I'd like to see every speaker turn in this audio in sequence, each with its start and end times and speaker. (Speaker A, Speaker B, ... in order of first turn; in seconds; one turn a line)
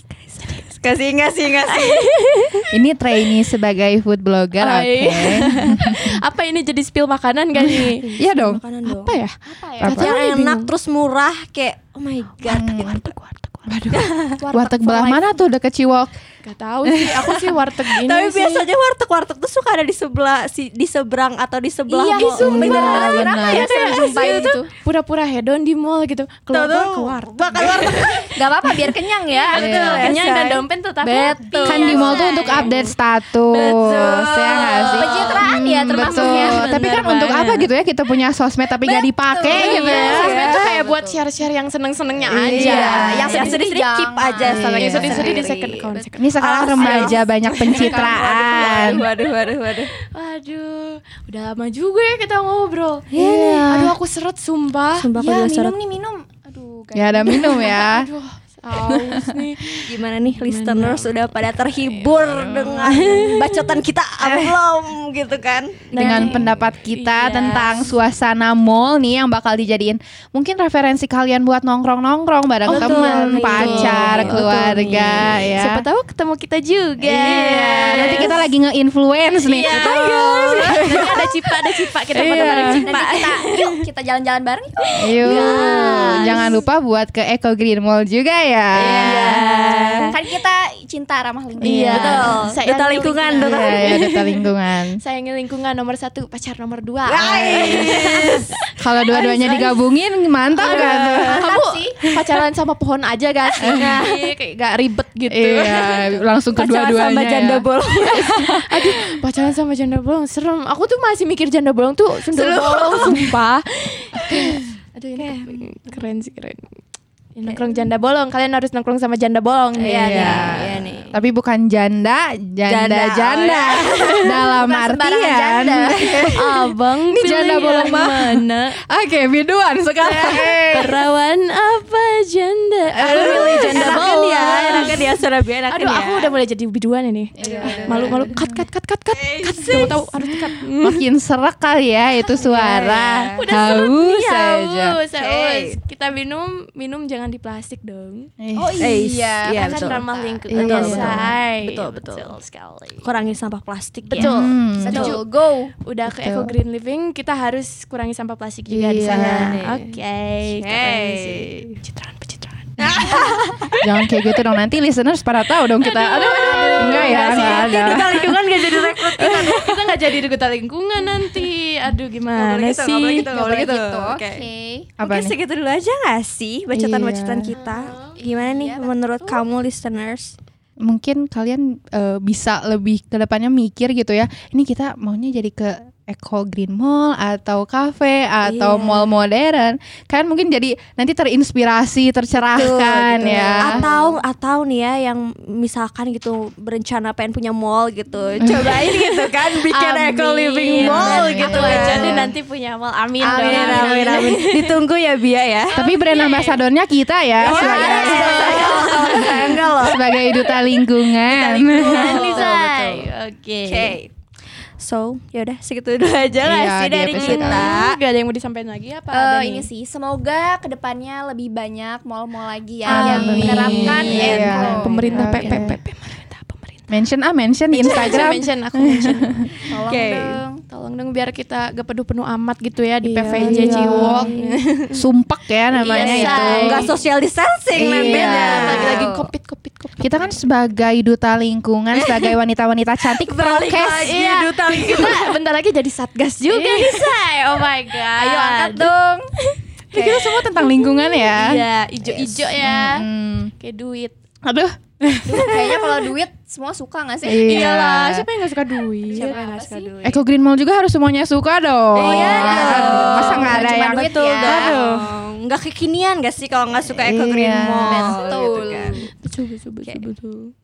Speaker A: 0.5-2.0
Speaker B: 1.6-2.7
Speaker C: 2.7-6.2
Speaker B: 4.6-10.7
Speaker C: 7.6-9.1
Speaker A: 8.0-9.1
Speaker D: 9.5-9.9
Speaker C: 9.8-10.1
Speaker A: 9.8-13.1
Speaker C: 12.5-13.1
Speaker B: 12.6-13.8
Speaker C: 13.7-16.1
Speaker A: 13.9-14.4
Speaker D: 14.4-15.3
Speaker B: 16.4-18.7
Speaker C: 16.9-17.3
Speaker A: 17.9-24.4
Speaker D: 21.9-24.7
Speaker B: 22.0-28.3
Speaker C: 22.5-23.7
Speaker A: 26.5-28.3
Speaker D: 28.4-29.6
Speaker A: 29.4-30.6
Speaker B: 29.5-32.7
Speaker C: 29.6-30.1
Speaker D: 31.0-32.7
Speaker C: 31.6-40.6
Speaker A: 31.7-32.8
Speaker A: 33.5-35.4
Speaker D: 34.9-36.8
Speaker B: 35.9-37.5
Speaker A: 36.5-37.7
Speaker D: 38.8-41.2
Speaker A: 39.5-40.8
Speaker B: 39.5-43.6
Speaker C: 42.3-43.3
Speaker A: 42.5-49.9
Speaker D: 42.5-46.1
Speaker C: 44.5-45.4
Speaker B: 44.8-46.3
Speaker C: 46.2-49.0
Speaker B: 46.8-49.3
Speaker B: 50.0-55.1
Speaker A: 53.1-53.6
Speaker C: 53.1-54.0
Speaker A: 55.0-55.8
Speaker D: 55.2-57.7
Speaker C: 56.9-58.1
Speaker B: 57.3-63.8
Speaker C: 58.9-59.4
Speaker A: 59.8-66.3
Speaker C: 62.3-63.2
Speaker C: 64.2-64.6
Speaker B: 65.9-67.9
Speaker C: 66.0-75.9
Speaker B: 72.7-74.5
Speaker A: 72.7-75.6
Speaker B: 75.6-78.4
Speaker C: 77.1-81.2
Speaker A: 77.1-78.3
Speaker A: 79.4-81.3
Speaker B: 79.6-83.4
Speaker C: 82.1-82.8
Speaker D: 82.8-84.9
Speaker C: 85.0-89.4
Speaker B: 85.1-86.6
Speaker A: 85.2-86.5
Speaker A: 88.8-90.2
Speaker B: 88.8-90.2
Speaker D: 90.1-92.3
Speaker C: 91.6-92.4
Speaker B: 91.6-94.4
Speaker A: 91.9-94.2
Speaker C: 93.4-95.0
Speaker B: 95.0-99.8
Speaker A: 97.1-98.5
Speaker C: 97.3-97.9
Speaker C: 98.8-101.5
Speaker B: 100.5-106.2
Speaker A: 100.6-101.4
Speaker D: 101.2-102.0
Speaker C: 103.6-104.1
Speaker A: 103.6-104.3
Speaker C: 105.3-107.7
Speaker A: 106.6-108.7
Speaker B: 108.5-116.7
Speaker A: 112.3-113.3
Speaker A: 115.2-115.7
Speaker B: 117.4-120.6
Speaker A: 119.8-121.2
Speaker C: 120.0-126.3
Speaker A: 122.7-124.4
Speaker D: 124.5-126.3
Speaker A: 125.9-126.3
Speaker B: 126.3-128.8
Speaker C: 127.1-130.9
Speaker A: 130.0-130.9
Speaker B: 130.7-135.2
Speaker C: 133.0-134.2
Speaker A: 133.0-136.3
Speaker C: 134.7-135.0
Speaker B: 135.7-141.0
Speaker C: 137.4-138.6
Speaker A: 137.6-138.2
Speaker A: 139.2-140.0
Speaker C: 140.2-145.0
Speaker A: 142.4-143.4
Speaker B: 143.3-148.3
Speaker A: 145.2-145.8
Speaker C: 148.4-149.0
Speaker D: 148.6-150.8
Speaker A: 148.8-150.0
Speaker B: 149.6-153.2
Speaker C: 150.5-151.3
Speaker A: 150.5-152.4
Speaker A: 153.0-154.3
Speaker B: 154.1-155.2
Speaker C: 154.2-155.2
Speaker D: 154.8-155.7
Speaker A: 154.9-155.2
Speaker B: 155.8-163.4
Speaker C: 156.1-156.6
Speaker C: 158.7-159.6
Speaker A: 159.1-161.8
Speaker A: 162.8-163.7
Speaker C: 163.8-168.2
Speaker B: 165.8-173.3
Speaker A: 166.0-169.9
Speaker A: 172.3-174.5
Speaker C: 173.2-174.2
Speaker D: 174.3-174.9
Speaker C: 175.0-175.3
Speaker A: 175.0-180.3
Speaker C: 176.7-177.6
Speaker B: 177.6-178.2
Speaker D: 178.3-179.3
Speaker C: 180.8-193.9
Speaker A: 188.4-189.2
Speaker A: 192.5-202.3
Speaker D: 193.3-193.9
Speaker B: 198.4-204.8
Speaker C: 198.4-198.8
Speaker C: 200.7-202.3
Speaker D: 203.2-204.2
Speaker A: 203.3-205.8
Speaker B: 205.7-206.6
Speaker C: 205.8-212.6
Speaker B: 207.4-209.6
Speaker A: 207.4-210.2
Speaker B: 211.2-214.0
Speaker A: 211.9-213.1
Speaker A: 213.7-214.1
Speaker A: 214.8-218.0
Speaker C: 216.4-217.7
Speaker B: 217.2-219.7
Speaker D: 219.1-225.3
Speaker B: 222.8-226.9
Speaker C: 222.9-225.8
Speaker A: 223.1-224.8
Speaker C: 226.9-229.4
Speaker B: 227.7-229.5
Speaker D: 229.7-230.6
Speaker A: 229.9-230.4
Speaker B: 230.7-235.0
Speaker C: 233.0-234.3
Speaker A: 233.3-234.5
Speaker C: 234.9-236.9
Speaker B: 235.8-236.9
Speaker A: 235.9-239.1
Speaker C: 237.7-239.1
Speaker B: 237.9-240.4
Speaker D: 238.6-239.3
Speaker C: 240.0-244.2
Speaker A: 241.9-242.3
Speaker A: 243.2-245.3
Speaker B: 244.0-253.1
Speaker A: 248.2-248.8
Speaker C: 248.9-249.2
Speaker C: 249.9-251.5
Speaker C: 252.1-253.5
Speaker B: 253.6-254.1
Speaker C: 254.4-255.6
Speaker D: 255.2-257.6
Speaker C: 257.2-258.3
Speaker B: 257.4-259.9
Speaker A: 257.5-258.1
Speaker D: 259.1-259.9
Speaker A: 259.1-260.2
Speaker C: 260.0-265.1
Speaker A: 261.9-269.0
Speaker B: 262.1-263.4
Speaker D: 262.1-264.8
Speaker C: 266.9-268.2
Speaker D: 267.8-269.1
Speaker B: 268.9-270.5